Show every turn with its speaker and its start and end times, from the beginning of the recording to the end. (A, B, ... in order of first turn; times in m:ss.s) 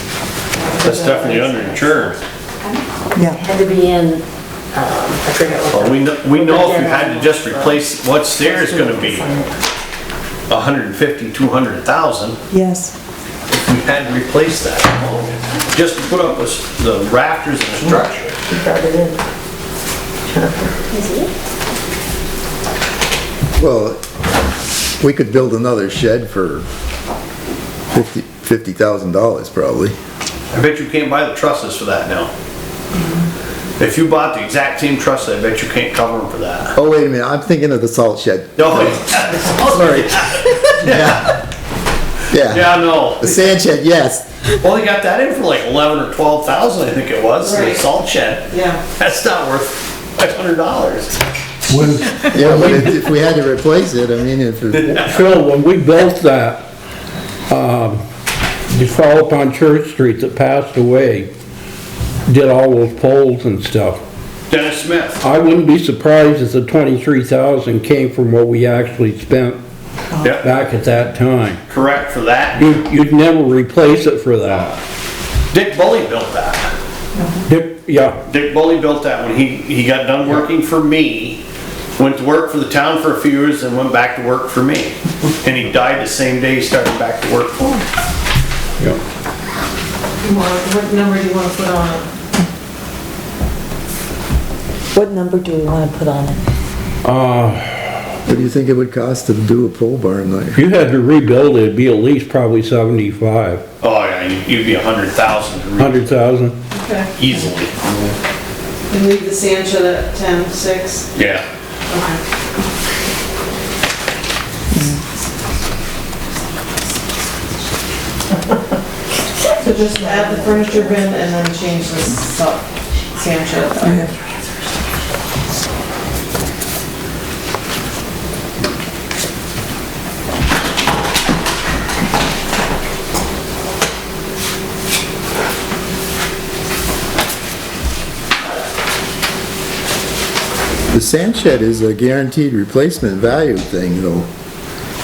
0:00.6-0:01.4 A
0:00.8-0:02.2 B
0:03.1-0:03.4 C
0:03.3-0:07.8 D
0:05.7-0:09.4 B
0:08.4-0:09.5 D
0:10.5-0:12.4 B
0:12.5-0:12.9 C
0:13.5-0:18.4 B
0:18.5-0:19.2 D
0:20.3-0:21.3 D
0:23.6-0:24.0 E
0:25.0-0:26.6 E
0:27.9-0:29.9 E
0:30.5-0:32.3 B
0:33.8-0:36.7 B
0:36.7-0:39.0 E
0:38.6-0:41.2 B
0:40.8-0:41.3 E
0:42.3-0:44.2 E
0:42.5-0:43.4 B
0:44.6-0:51.2 B
0:47.4-0:47.8 A
0:48.5-0:48.8 A
0:51.7-0:53.0 F
0:52.3-0:55.0 E
0:54.7-0:55.2 B
0:55.0-0:56.6 F
0:57.5-0:58.0 F
0:58.7-1:01.3 F
1:02.3-1:04.0 F
1:04.5-1:05.2 B
1:05.2-1:09.6 F
1:10.2-1:10.5 B
1:10.3-1:11.6 F
1:11.7-1:12.8 B
1:12.6-1:14.8 F
1:15.5-1:16.7 B
1:17.5-1:18.2 F
1:18.2-1:21.4 B
1:22.0-1:27.8 B
1:30.2-1:32.1 A
1:34.9-1:36.4 C
1:37.0-1:38.0 F
1:38.2-1:40.6 E
1:40.5-1:43.6 F
1:43.8-1:46.1 B
1:45.8-1:46.6 F
1:46.7-1:47.1 A
1:47.2-1:48.1 B
1:48.9-1:51.1 A
1:51.1-1:51.4 B
1:51.9-1:52.2 A
1:54.7-1:55.0 C
1:59.6-2:04.1 A
2:03.8-2:04.1 C
2:20.9-2:24.3 E